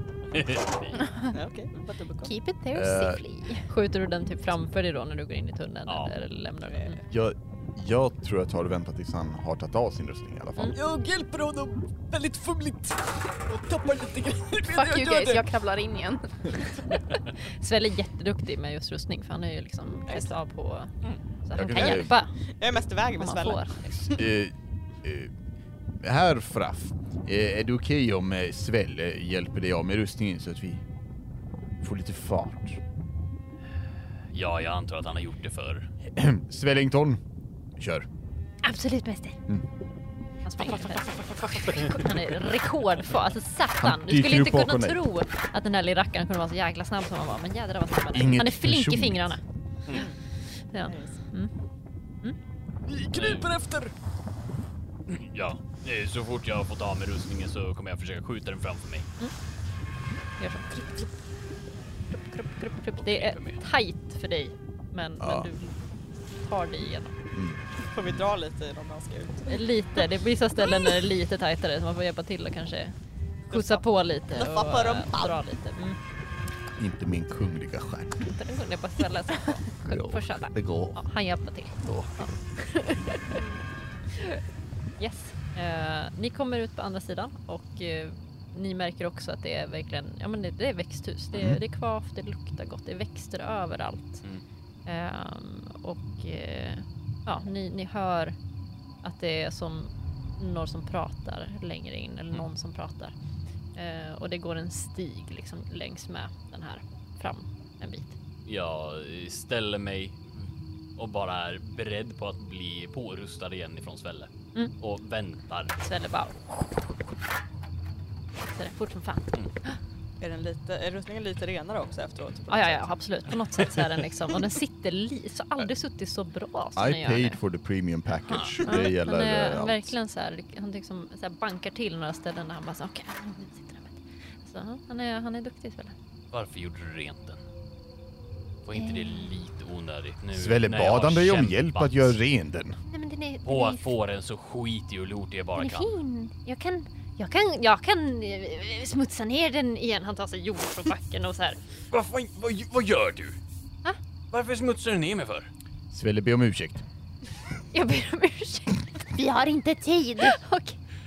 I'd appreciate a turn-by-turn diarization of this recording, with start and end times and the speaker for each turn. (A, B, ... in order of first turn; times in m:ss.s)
0:00.3-0:01.0 A
0:01.0-0:01.3 B
0:01.3-0:02.3 C
0:02.2-0:03.6 D
0:02.7-0:03.2 E
0:03.7-0:07.0 F
0:05.9-0:06.1 A
0:06.7-0:07.0 C
0:07.1-0:10.8 E
0:10.7-0:15.5 G
0:14.7-0:16.5 B
0:16.9-0:20.9 F
0:21.4-0:22.3 F
0:21.5-0:22.2 E
0:22.6-0:23.8 C
0:23.2-0:24.2 F
0:24.2-0:25.3 E
0:26.0-0:30.8 E
0:31.8-0:32.8 E
0:34.3-0:35.9 A
0:36.1-0:37.2 E
0:37.8-0:38.0 E
0:38.6-0:39.3 F
0:40.4-0:49.4 F
0:40.8-0:42.1 A
0:43.8-0:45.0 E
0:48.1-0:49.4 E
0:49.9-0:50.2 C
0:50.7-0:51.5 F
0:50.8-0:51.2 C
0:52.8-0:53.9 G
0:53.1-0:53.5 A
0:55.1-0:59.1 A
1:00.4-1:01.1 F
1:02.1-1:05.8 F
1:03.0-1:03.6 A
1:05.2-1:05.5 E
1:06.4-1:07.2 F
1:07.3-1:07.6 E
1:07.8-1:09.6 C
1:09.5-1:12.9 F
1:13.5-1:15.4 C
1:13.5-1:16.0 F
1:16.8-1:18.2 E
1:18.2-1:23.4 F
1:19.8-1:21.0 E
1:21.8-1:22.2 E
1:25.0-1:34.2 F
1:31.3-1:31.6 E
1:34.8-1:38.4 F
1:39.0-1:43.2 F
1:43.7-1:48.2 F
1:48.4-1:55.8 A
1:55.8-1:56.8 F
1:58.5-1:59.8 F
2:00.2-2:02.9 C
2:02.5-2:07.4 F
2:06.8-2:09.9 E
2:08.3-2:15.9 F
2:16.3-2:17.4 A
2:18.6-2:22.2 A
2:18.7-2:19.3 F
2:20.3-2:22.8 E
2:22.8-2:23.9 F
2:23.4-2:25.9 A
2:25.6-2:31.6 F
2:31.9-2:33.4 A
2:34.3-2:35.5 A
2:35.9-2:36.8 E
2:37.7-2:39.0 F
2:39.1-2:40.4 D
2:40.2-2:40.8 F